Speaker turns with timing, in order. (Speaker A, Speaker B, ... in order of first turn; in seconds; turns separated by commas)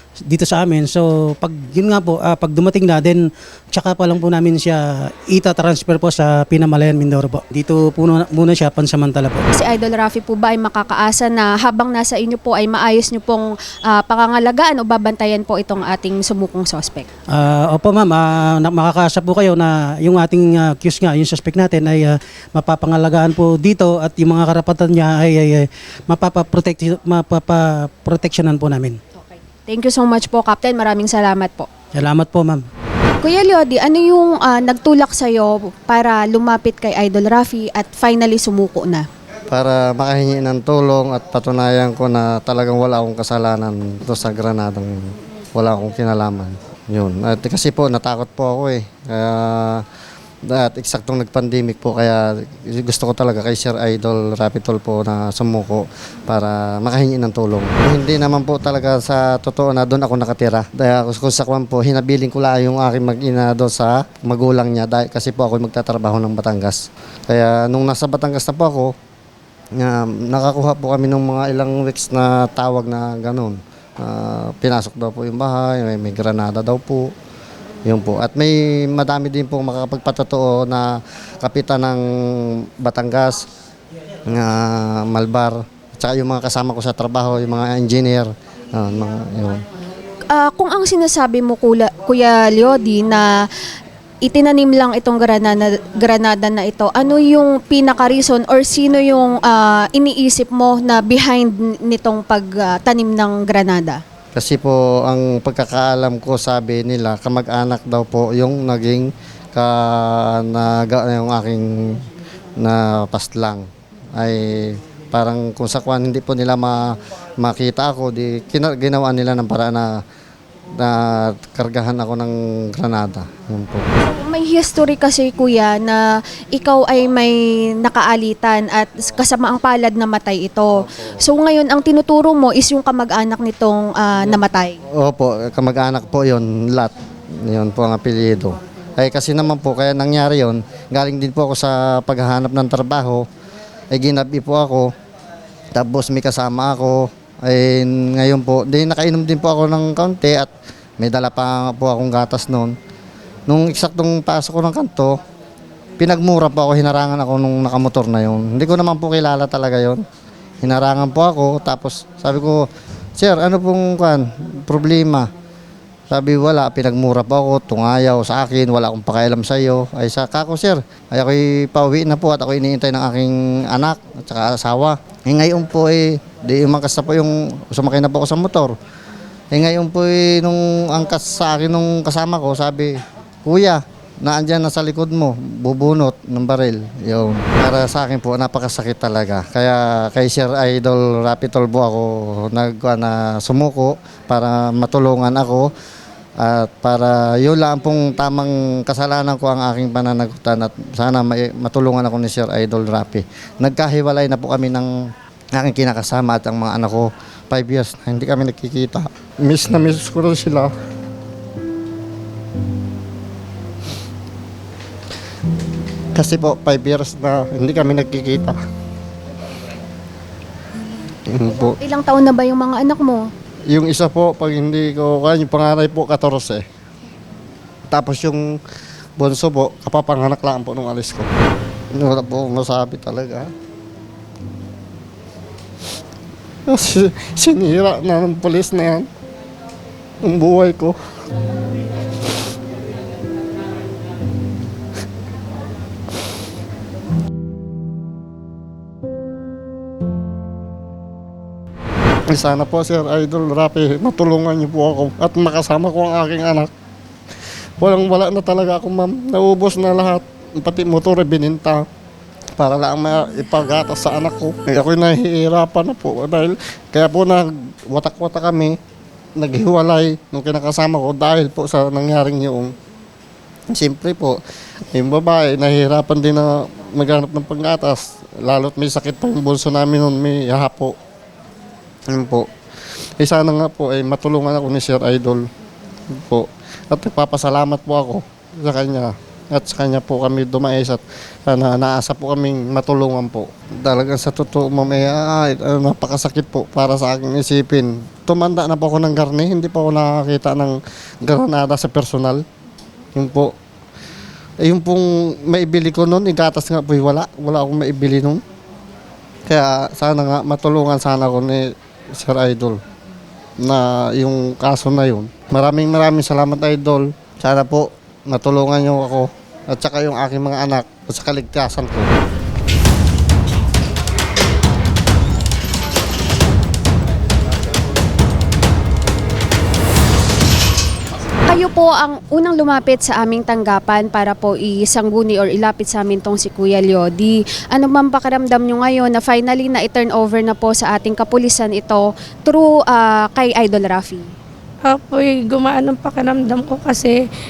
Speaker A: 0.3-9.4, Speaker B: 9.6-17.1, Speaker A: 17.3-29.0, Speaker B: 29.7-31.7, Speaker A: 32.0-32.6, Speaker B: 33.2-39.1, Speaker C: 39.5-49.8, Speaker C: 50.5-68.9, Speaker C: 69.8-77.1, Speaker C: 77.9-82.0, Speaker C: 82.8-83.4, Speaker C: 84.3-89.6, Speaker B: 90.3-93.4, Speaker B: 94.2-104.0, Speaker C: 104.3-112.0, Speaker C: 112.6-120.0, Speaker C: 120.8-123.9, Speaker B: 124.0-134.8, Speaker C: 134.9-136.9, Speaker C: 137.4-143.2, Speaker C: 143.9-144.9, Speaker C: 145.8-152.7, Speaker C: 153.5-155.2, Speaker C: 156.0-160.0, Speaker C: 160.6-165.3, Speaker C: 166.1-178.8, Speaker C: 179.5-195.7, Speaker C: 196.4-204.9, Speaker C: 205.5-210.7, Speaker C: 216.2-218.6, Speaker C: 221.3-221.8, Speaker B: 221.5-223.3, Speaker C: 223.7-226.7, Speaker C: 227.9-228.4, Speaker C: 229.2-231.3, Speaker C: 232.0-233.5, Speaker C: 236.7-239.1, Speaker C: 240.2-241.0, Speaker C: 252.3-256.7, Speaker C: 257.8-261.9, Speaker C: 262.6-268.8, Speaker C: 269.4-272.7, Speaker C: 273.7-274.4, Speaker C: 274.9-280.9, Speaker C: 282.1-282.5, Speaker C: 283.2-285.4, Speaker C: 286.2-302.4, Speaker C: 303.2-303.5, Speaker C: 304.6-308.4, Speaker C: 309.5-312.8, Speaker C: 313.6-322.1, Speaker B: 331.5-344.3, Speaker D: 344.9-347.2